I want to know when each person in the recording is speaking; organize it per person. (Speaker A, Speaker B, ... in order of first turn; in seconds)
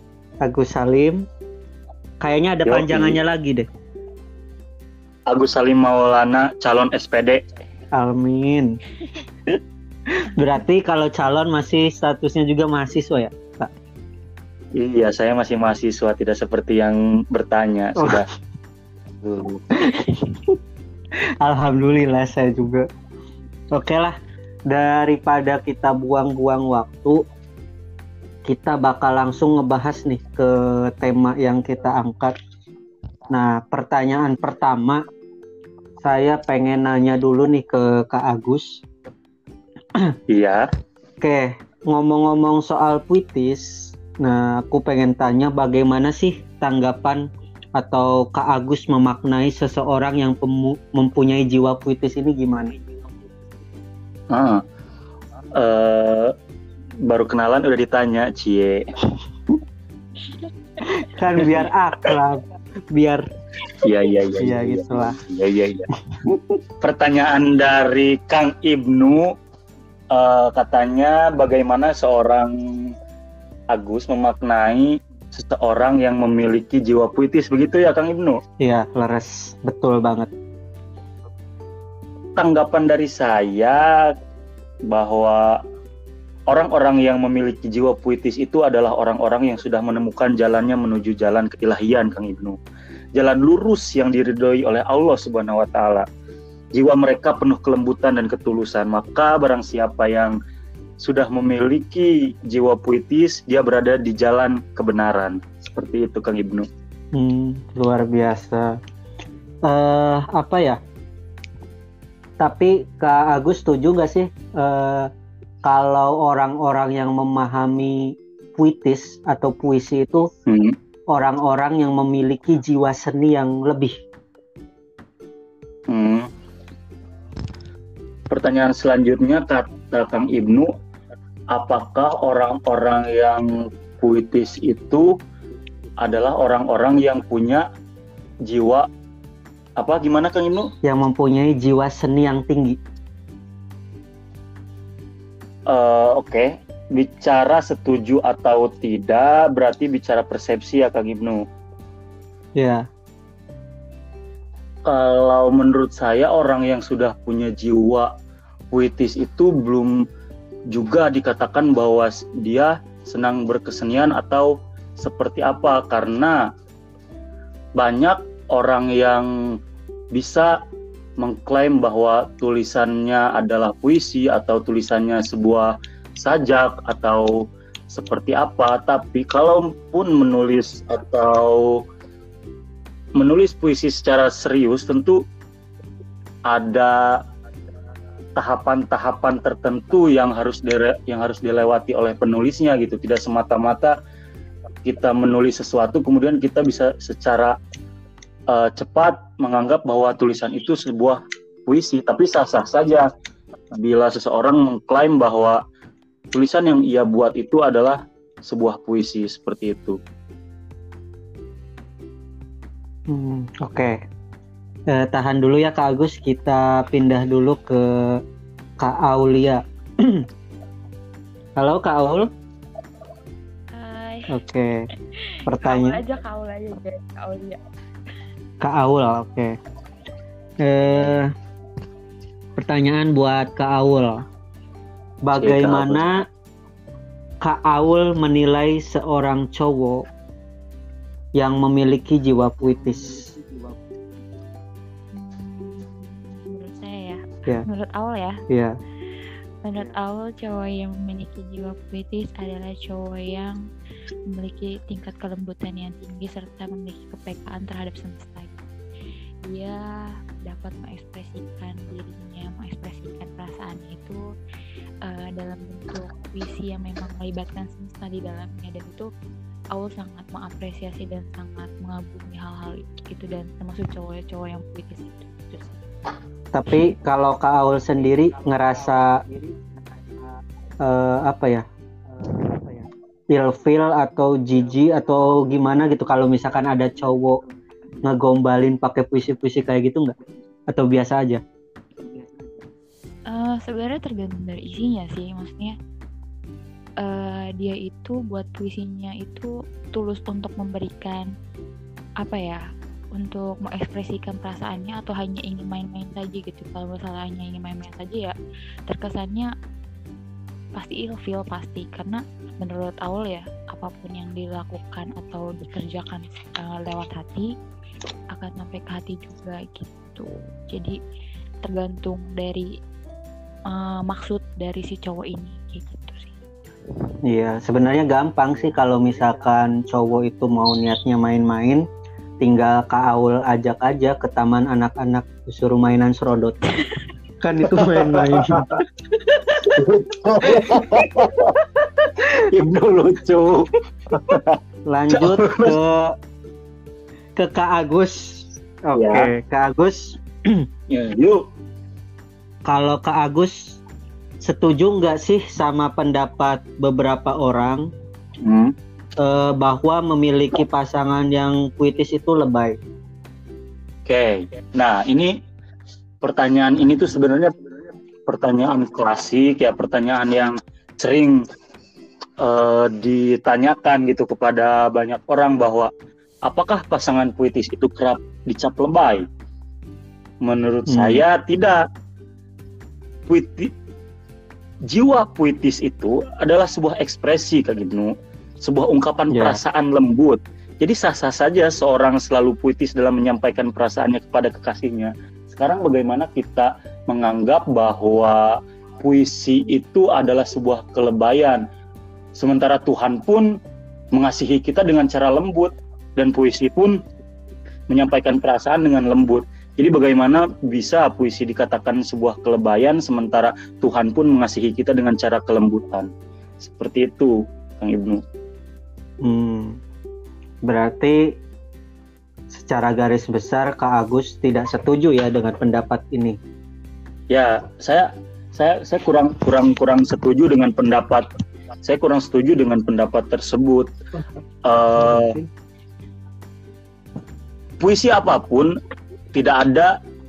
Speaker A: 0.4-1.2, 2.2-3.7, 7.9-8.7, 10.1-13.7, 18.0-18.3, 19.8-20.6, 21.4-22.9, 23.7-24.1, 24.7-27.2, 28.4-32.3, 33.3-35.0, 36.0-38.8, 41.2-47.2, 47.8-52.8, 60.8-63.3, 64.4-65.2, 66.1-66.4, 78.6-80.3, 107.1-108.7, 109.7-110.8, 112.4-115.1, 115.6-120.3, 121.1-123.9, 140.8-142.8, 152.6-152.9, 213.1-214.0, 214.9-218.2, 218.8-220.3, 221.6-222.3, 224.3-224.8, 225.4-226.0, 228.6-229.5, 230.6-231.3, 232.6-234.2, 235.2-236.2, 237.4-240.1, 241.4-243.3, 248.5-248.8, 276.5-279.3, 280.8-281.6, 282.2-287.4, 288.0-290.1, 290.7-291.4, 327.2-331.8, 332.4-336.6, 337.4-338.8, 340.6-341.0, 344.9-346.1, 347.4-350.7, 352.6-353.8, 354.4-357.9, 359.2-362.8, 380.9-381.2, 389.3-389.6, 419.2-419.8, 420.7-421.3, 422.5-426.4, 435.0-435.5
Speaker B: 2.6-3.2, 5.3-7.4, 14.7-18.3, 19.2-19.6, 40.3-40.6, 54.3-54.6, 55.5-56.3, 57.0-58.9, 61.4-62.2, 63.7-65.9, 66.8-69.3, 70.1-72.9, 73.7-78.4, 82.4-84.1, 84.9-85.6, 86.5-92.6, 93.2-96.1, 96.7-100.3, 101.0-106.7, 120.5-120.7, 125.9-126.3, 128.3-130.7, 131.5-135.2, 136.0-137.7, 138.4-138.9, 139.8-140.7, 145.7-151.4, 154.9-158.1, 158.7-160.0, 160.7-166.4, 167.8-169.3, 170.1-170.5, 171.2-181.8, 183.2-185.2, 186.5-187.2, 188.3-194.0, 194.8-197.6, 198.5-203.1, 203.7-205.6, 206.3-210.0, 235.3-236.1, 337.8-338.6, 339.6-341.6, 342.2-344.6, 345.1-345.8, 348.9-349.3, 350.9-351.4, 358.4-358.7, 364.1-365.3, 366.2-367.5, 368.3-371.4, 372.4-375.9, 376.4-379.3, 380.4-381.8, 383.3-383.7, 384.9-401.6, 402.3-403.5, 404.1-407.0, 407.9-418.2, 427.3-431.2, 431.8-433.9, 434.6-435.4, 437.8-438.7, 439.3-439.9
Speaker C: 223.7-224.4, 225.1-227.6, 245.1-248.4, 249.6-253.6, 254.3-258.7, 259.4-259.8, 260.4-264.2, 265.0-269.1, 269.7-275.8, 293.3-295.8, 297.0-301.3, 302.2-302.6, 303.1-308.3, 308.9-309.5, 310.8-317.5, 318.3-321.0, 321.6-322.7, 323.7-326.5